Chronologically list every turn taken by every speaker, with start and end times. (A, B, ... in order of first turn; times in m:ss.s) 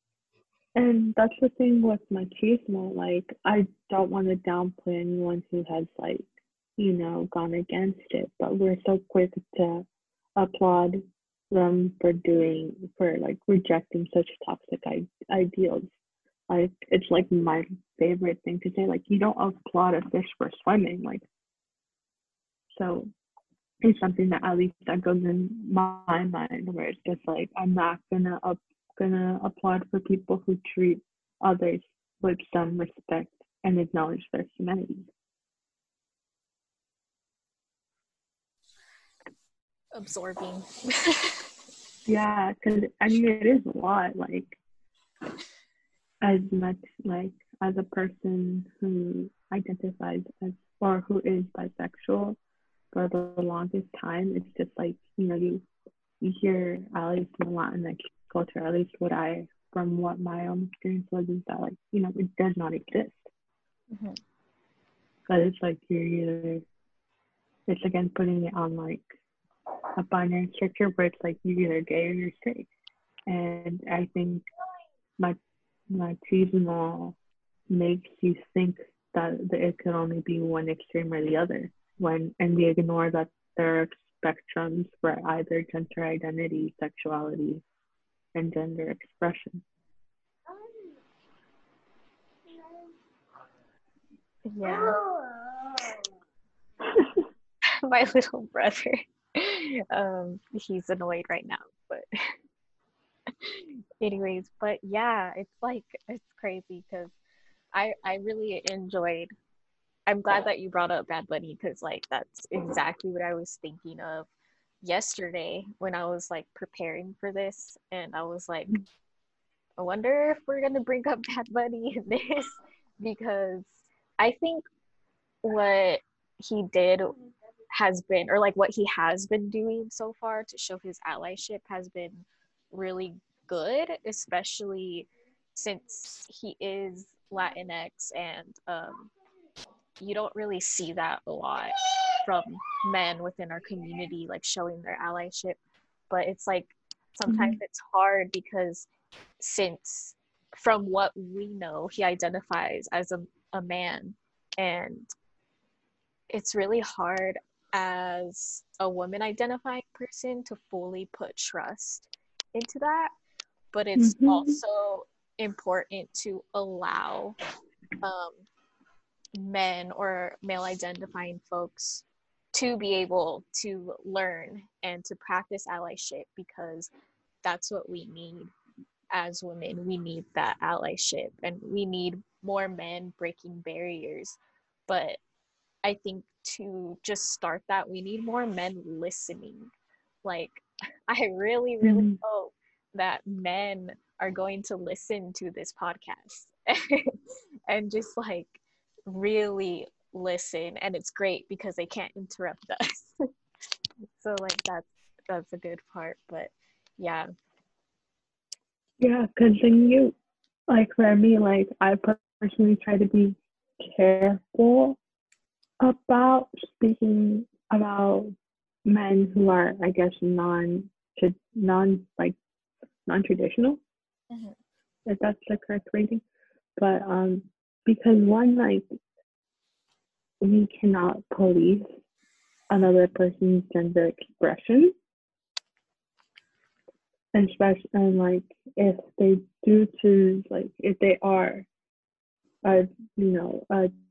0:00.8-0:09.8 A
0:10.4-0:15.9 A
0:16.5-0:21.2 A
0:22.7-0:23.1 A
0:23.8-0:35.1 A
0:39.9-0:41.5 B
0:42.1-0:44.6 A
0:46.2-0:52.4 A
0:52.9-0:55.6 A
0:56.2-1:03.2 A
1:03.9-1:04.2 B
1:05.3-1:06.6 A
1:07.7-1:09.0 A
1:10.0-1:12.7 A
1:13.3-1:14.4 A
1:15.9-1:17.2 A
1:17.7-1:27.6 A
1:28.3-1:29.6 A
1:34.5-1:35.0 B
1:37.6-1:42.0 B
1:43.3-1:47.1 B
1:47.7-1:49.3 B
1:50.1-1:54.3 B
1:54.8-1:58.8 B
1:59.8-2:04.6 B
2:05.4-2:07.2 B
2:07.7-2:19.1 B
2:20.0-2:25.6 B
2:26.1-2:28.9 B
2:27.3-2:27.6 A
2:29.4-2:35.1 B
2:36.3-2:43.1 B
2:43.7-2:47.4 B
2:44.0-2:44.6 A
2:48.0-2:48.4 B
2:49.3-2:56.9 B
2:57.4-2:58.5 B
2:59.1-3:04.4 B
3:04.9-3:05.2 B
3:05.8-3:09.7 B
3:10.2-3:17.2 B
3:11.8-3:12.2 A
3:17.7-3:23.2 B
3:24.2-3:27.3 B
3:29.0-3:30.2 A
3:30.7-3:35.0 A
3:35.8-3:38.3 A
3:38.8-3:42.4 A
3:43.0-3:43.8 A
3:44.3-3:44.6 B
3:45.0-3:46.2 A
3:46.8-3:48.8 A
3:50.4-3:51.8 A
3:52.7-3:54.9 A
3:57.3-4:01.7 A
4:02.6-4:03.9 A